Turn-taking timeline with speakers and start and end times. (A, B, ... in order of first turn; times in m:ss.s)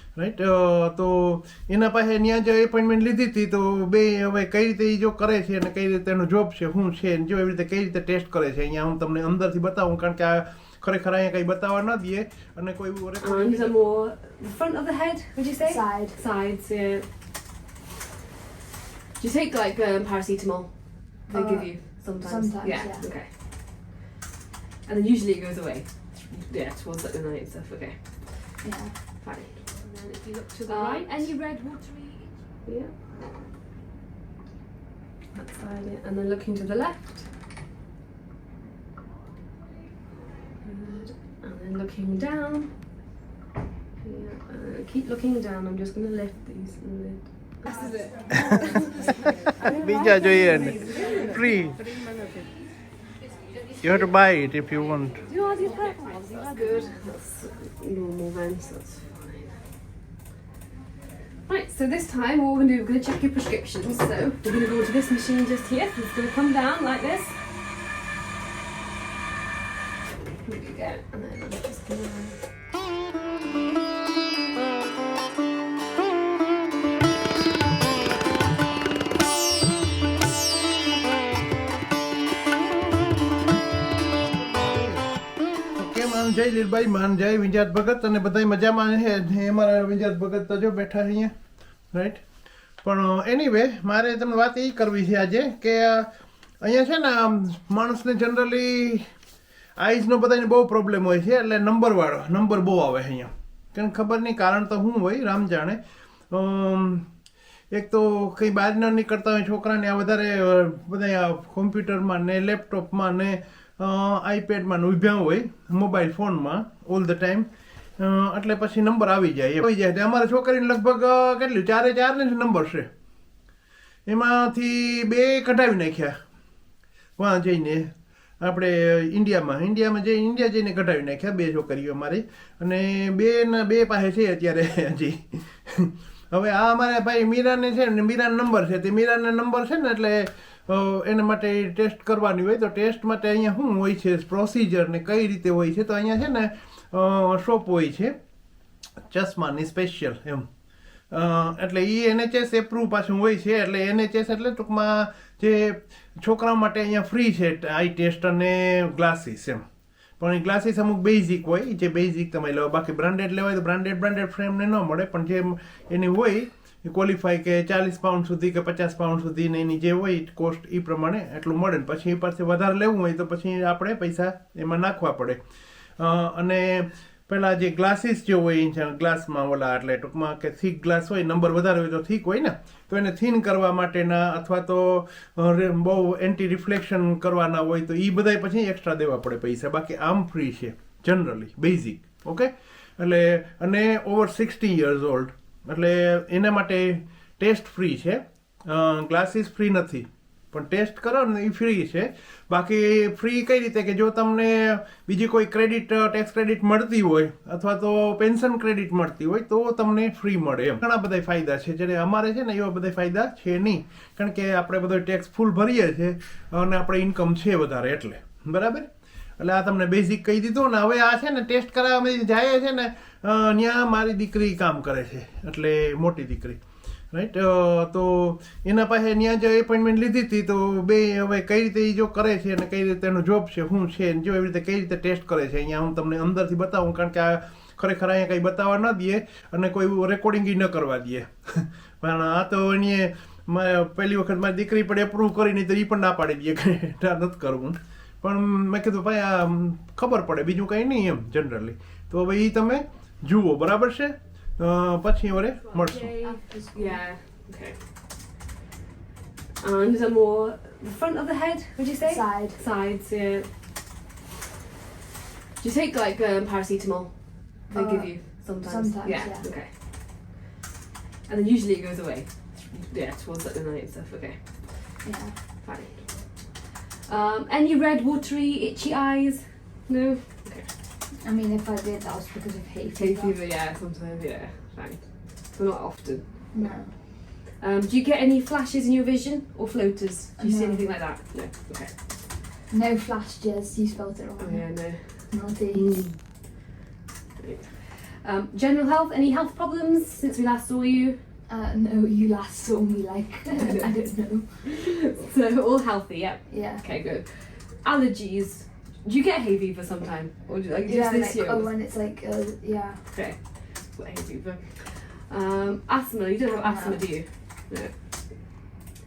0:00.2-0:13.9 A
0:13.2-0:17.1 B
0:15.6-0:16.2 C
0:19.2-0:23.9 B
0:21.3-0:23.1 C
0:24.9-0:31.4 B
0:28.6-0:29.0 C
0:30.7-0:32.3 C
0:32.7-0:32.9 B
0:35.3-0:37.3 B
0:40.6-0:42.8 B
0:44.0-0:49.5 B
0:49.6-0:51.9 A
0:53.8-0:55.2 A
0:55.2-0:59.6 B
1:01.5-1:07.4 B
1:10.4-1:12.5 B
1:24.3-1:25.1 A
1:25.8-1:31.3 A
1:31.9-1:32.2 A
1:32.8-1:39.1 A
1:39.8-1:47.1 A
1:47.7-2:02.9 A
2:04.1-2:06.2 A
2:07.2-2:28.2 A
2:29.0-2:30.5 A
2:31.1-2:39.7 A
2:40.2-2:55.4 A
2:56.0-4:16.1 A
4:15.7-4:17.8 B
4:15.8-4:17.0 C
4:19.6-4:23.5 B
4:22.0-4:22.6 C
4:25.6-4:30.3 B
4:27.7-4:29.5 C
4:31.3-4:35.1 B
4:35.0-4:35.4 C
4:35.6-4:40.7 B
4:41.2-4:43.4 C
4:43.0-4:52.0 B
4:46.5-4:47.0 C
4:50.4-4:51.0 C
4:52.7-4:56.1 C
4:54.4-4:56.6 B
4:57.4-5:01.2 B
5:01.5-5:04.7 C
5:03.5-5:11.7 B
5:06.5-5:06.8 C
5:10.9-5:13.1 C
5:13.1-5:18.6 B
5:16.6-5:17.1 C